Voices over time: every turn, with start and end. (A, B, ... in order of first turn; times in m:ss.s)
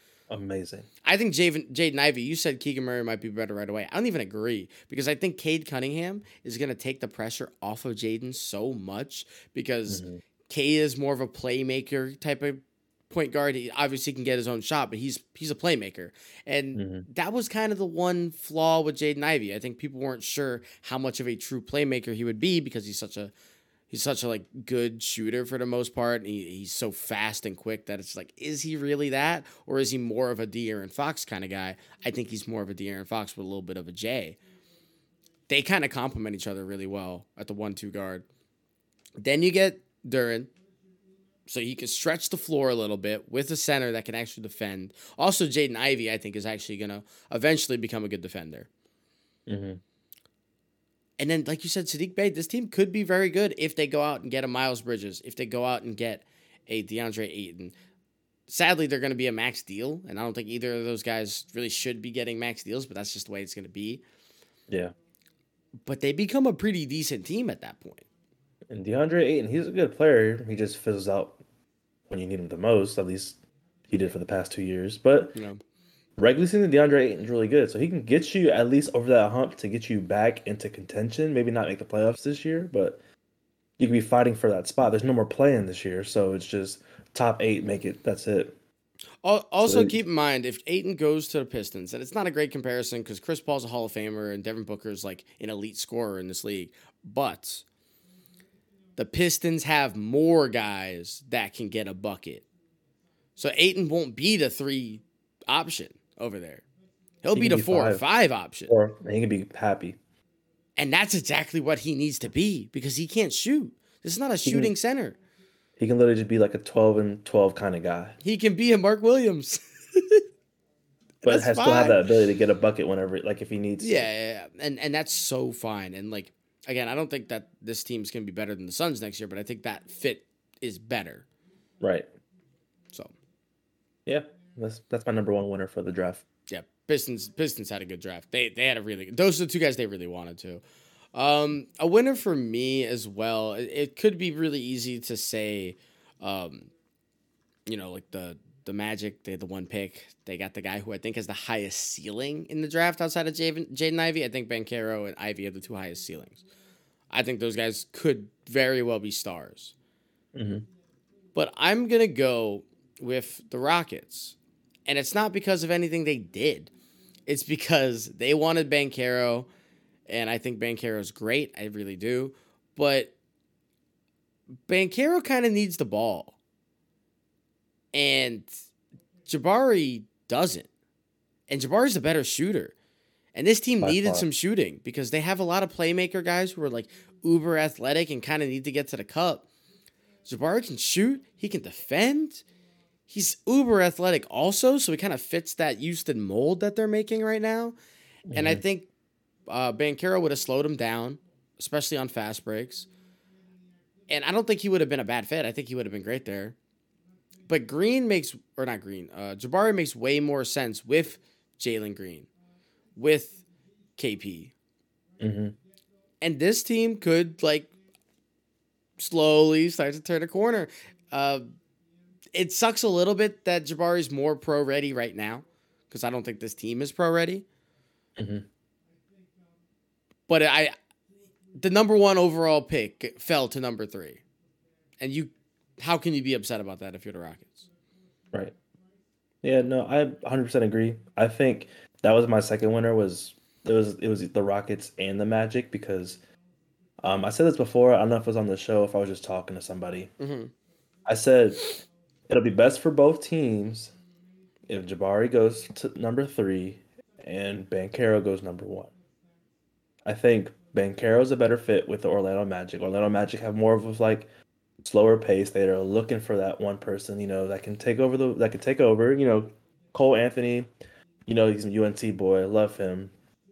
0:00.3-0:00.9 A
0:01.0-0:23.3 B
0:09.9-0:10.2 A
0:16.8-0:17.1 A
0:23.9-0:34.4 B
0:35.5-0:38.2 B
0:39.2-0:40.5 B
0:41.5-0:48.7 B
0:49.5-0:49.8 A
0:51.2-0:57.7 B
0:58.5-1:04.0 B
1:04.7-1:04.9 A
1:05.9-1:08.0 B
1:08.7-1:11.4 A
1:12.1-1:13.4 A
1:13.9-1:15.4 A
1:15.4-1:15.6 B
1:16.2-1:23.0 A
1:23.8-1:28.6 A
1:29.2-1:37.6 B
1:29.6-1:30.0 A
1:39.0-1:42.4 B
1:43.4-1:46.6 B
1:47.2-1:48.7 B
1:47.4-1:48.0 A
1:48.7-1:50.0 A
1:50.8-1:55.2 B
1:54.5-1:54.7 A
1:55.8-1:58.2 A
1:58.2-2:00.2 B
2:01.2-2:02.1 B
2:01.2-2:04.1 A
2:03.8-2:11.2 B
2:11.8-2:12.1 A
2:14.1-2:16.2 A
2:16.5-2:20.6 B
2:21.1-2:26.7 B
2:27.7-2:36.4 B
2:37.1-2:39.7 B
2:40.3-2:40.7 A
2:41.4-2:44.4 B
2:44.9-2:46.7 B
2:47.3-2:49.5 B
2:50.1-2:53.1 B
2:54.7-2:56.4 B
2:57.9-2:58.5 B
2:59.3-3:00.7 B
3:01.5-3:02.7 B
3:03.4-3:09.5 B
3:03.8-3:04.3 A
3:10.2-3:12.4 B
3:13.1-3:17.8 B
3:18.3-3:18.6 A
3:18.3-3:18.9 B
3:19.5-3:22.9 B
3:24.1-3:26.6 B
3:27.5-3:32.3 B
3:33.0-3:33.4 B
3:34.0-3:34.5 B
3:35.2-3:35.6 A
3:36.2-3:37.7 B
3:39.0-3:41.5 B
3:42.4-3:47.4 B
3:48.2-3:48.5 A
3:50.3-3:50.7 B
3:51.6-3:54.2 B
3:55.0-3:57.7 B
3:59.4-4:06.2 A
4:07.0-4:10.1 A
4:10.2-4:10.5 B
4:11.1-4:11.7 A
4:12.3-4:13.9 A
4:14.7-4:18.9 A
4:20.0-4:24.3 A
4:24.8-4:30.7 A
4:31.3-4:33.1 A